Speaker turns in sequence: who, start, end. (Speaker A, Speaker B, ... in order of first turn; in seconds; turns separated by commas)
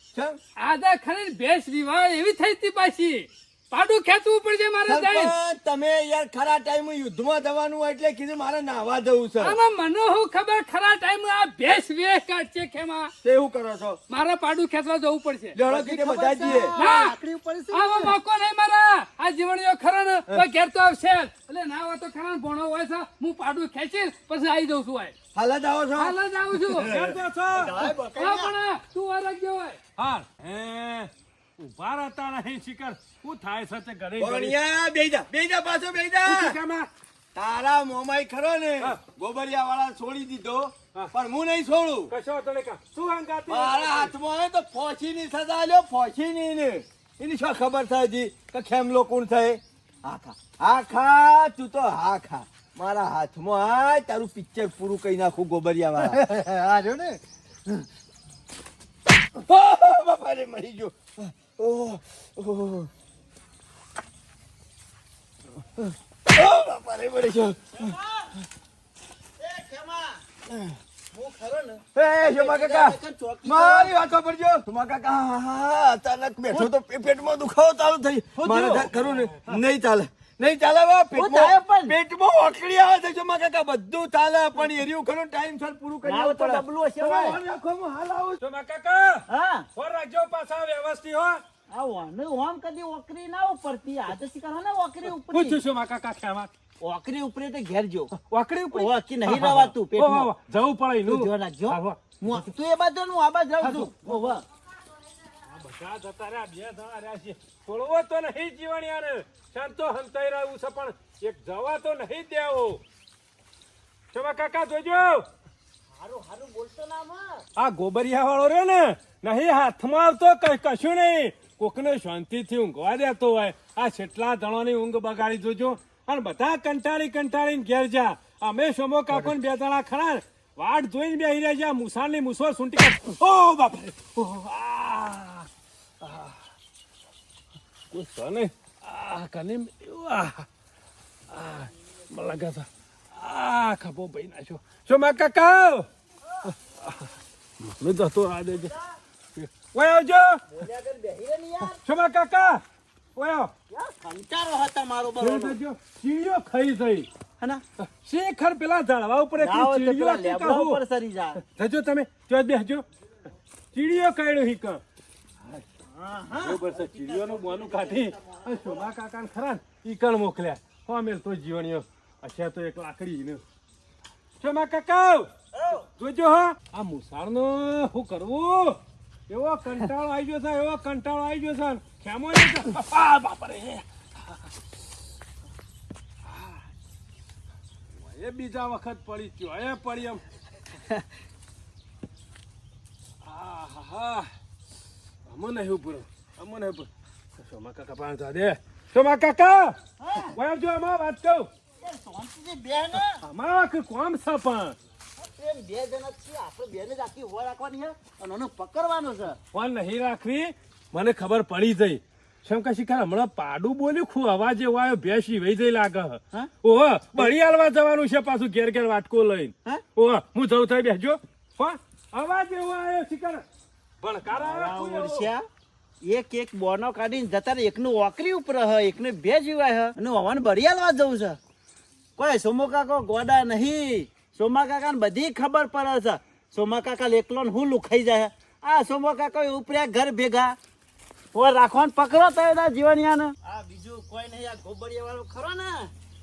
Speaker A: 0.1-0.4, Speaker B: 0.6-5.3, Speaker A: 4.8-9.6, Speaker B: 9.4-13.1, Speaker A: 13.2-14.0, Speaker B: 14.1-15.6, Speaker A: 15.5-16.7, Speaker C: 15.7-18.1, Speaker B: 16.5-17.1, Speaker B: 17.7-25.1, Speaker A: 25.3-27.2, Speaker B: 25.9-26.9, Speaker D: 26.8-27.8, Speaker E: 27.6-27.9, Speaker C: 27.6-28.5, Speaker B: 28.1-29.8, Speaker D: 30.0-31.0, Speaker A: 30.4-31.1, Speaker D: 31.6-34.5, Speaker A: 34.2-36.5, Speaker D: 36.2-36.9, Speaker A: 37.3-42.1, Speaker D: 42.1-44.1, Speaker A: 43.5-56.2, Speaker C: 56.0-57.9, Speaker A: 59.4-62.9, Speaker A: 65.8-68.0, Speaker E: 67.7-68.3, Speaker E: 69.4-70.2, Speaker A: 70.5-70.8, Speaker E: 71.1-73.9, Speaker A: 71.9-88.4, Speaker E: 78.3-78.9, Speaker D: 78.9-79.4, Speaker E: 81.1-82.0, Speaker E: 86.0-87.4, Speaker D: 88.4-89.2, Speaker E: 89.3-89.7, Speaker D: 89.8-91.4, Speaker E: 91.7-95.6, Speaker D: 95.0-96.5, Speaker E: 96.8-98.1, Speaker D: 98.1-102.5, Speaker E: 98.7-100.3, Speaker E: 101.0-104.4, Speaker D: 103.6-103.9, Speaker D: 105.5-112.8, Speaker D: 114.1-115.2, Speaker E: 115.9-117.4, Speaker D: 117.6-135.5, Speaker D: 136.0-136.4, Speaker D: 137.9-140.4, Speaker D: 141.3-145.9, Speaker D: 146.5-147.1, Speaker D: 147.6-148.7, Speaker D: 149.3-150.4, Speaker E: 150.5-151.8, Speaker D: 151.7-152.6, Speaker D: 153.2-153.5, Speaker E: 153.7-155.6, Speaker D: 155.2-157.1, Speaker D: 157.8-160.8, Speaker E: 159.4-161.4, Speaker D: 161.4-162.8, Speaker D: 163.7-164.8, Speaker E: 165.8-168.9, Speaker D: 166.4-173.4, Speaker D: 174.4-175.3, Speaker E: 175.5-175.9, Speaker D: 176.0-184.4, Speaker D: 186.3-186.6, Speaker D: 187.9-190.2, Speaker D: 193.2-194.3, Speaker D: 195.3-201.5, Speaker E: 200.0-200.4, Speaker E: 201.8-203.2, Speaker D: 203.0-204.8, Speaker E: 205.2-209.4, Speaker D: 209.5-223.4, Speaker D: 224.0-225.3, Speaker E: 224.3-225.5, Speaker E: 226.0-231.4, Speaker E: 232.2-240.6, Speaker E: 241.3-245.9